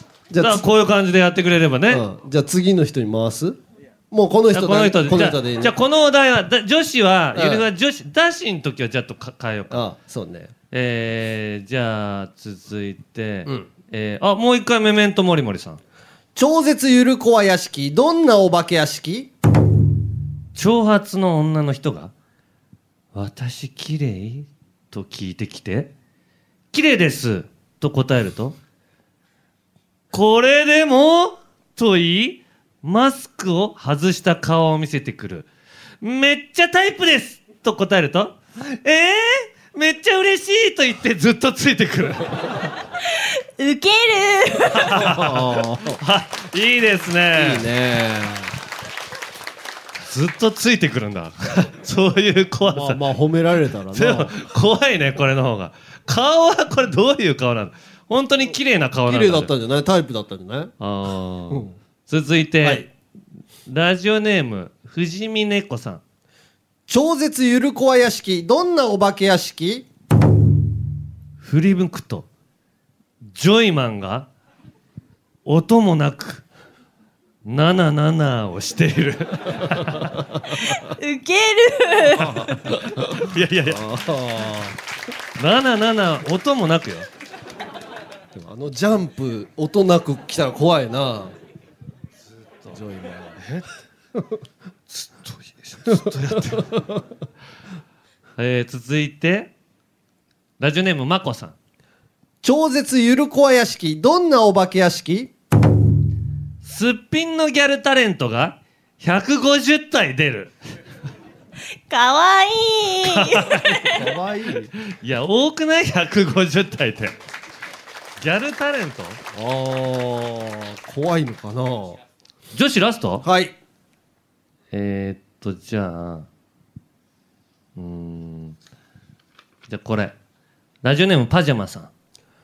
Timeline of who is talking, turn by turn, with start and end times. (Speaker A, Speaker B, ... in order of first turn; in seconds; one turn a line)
Speaker A: 0.3-0.6
Speaker B: 0.4-2.0
Speaker A: 1.9-3.6
Speaker A: 4.1-5.7
Speaker B: 4.5-9.9
Speaker A: 7.3-7.7
Speaker A: 9.7-10.5
Speaker B: 10.7-15.8
Speaker A: 16.4-19.3
Speaker B: 20.5-22.1
Speaker B: 23.1-25.9
Speaker B: 26.7-28.6
Speaker B: 30.1-35.5
Speaker B: 36.0-42.4
Speaker C: 43.6-44.9
Speaker B: 44.7-47.6
Speaker A: 44.9-46.0
Speaker A: 47.3-48.5
Speaker B: 50.0-53.0
Speaker A: 52.6-54.3
Speaker B: 53.9-59.5
Speaker A: 59.0-60.7
Speaker B: 60.8-62.9
Speaker A: 61.5-61.8
Speaker A: 62.6-62.9
Speaker B: 63.6-66.0
Speaker A: 66.9-69.9
Speaker B: 71.4-72.3
Speaker B: 73.2-74.3
Speaker B: 75.4-76.4
Speaker B: 77.4-80.1
Speaker C: 80.7-82.4
Speaker A: 82.2-84.8
Speaker B: 82.6-83.8
Speaker B: 85.4-87.1
Speaker A: 88.3-91.3
Speaker A: 92.7-93.4
Speaker B: 93.4-93.7
Speaker B: 94.9-96.7
Speaker A: 96.0-96.9
Speaker B: 98.4-99.5
Speaker B: 100.6-101.5
Speaker A: 102.4-105.3
Speaker B: 106.6-110.5
Speaker C: 111.9-114.0
Speaker B: 113.0-113.8
Speaker A: 113.9-114.7
Speaker B: 114.9-117.2
Speaker B: 118.2-119.2
Speaker A: 119.3-122.0
Speaker B: 122.5-123.2
Speaker A: 123.2-123.5
Speaker B: 124.7-126.3
Speaker B: 127.8-128.6
Speaker B: 129.7-130.1
Speaker B: 130.8-131.9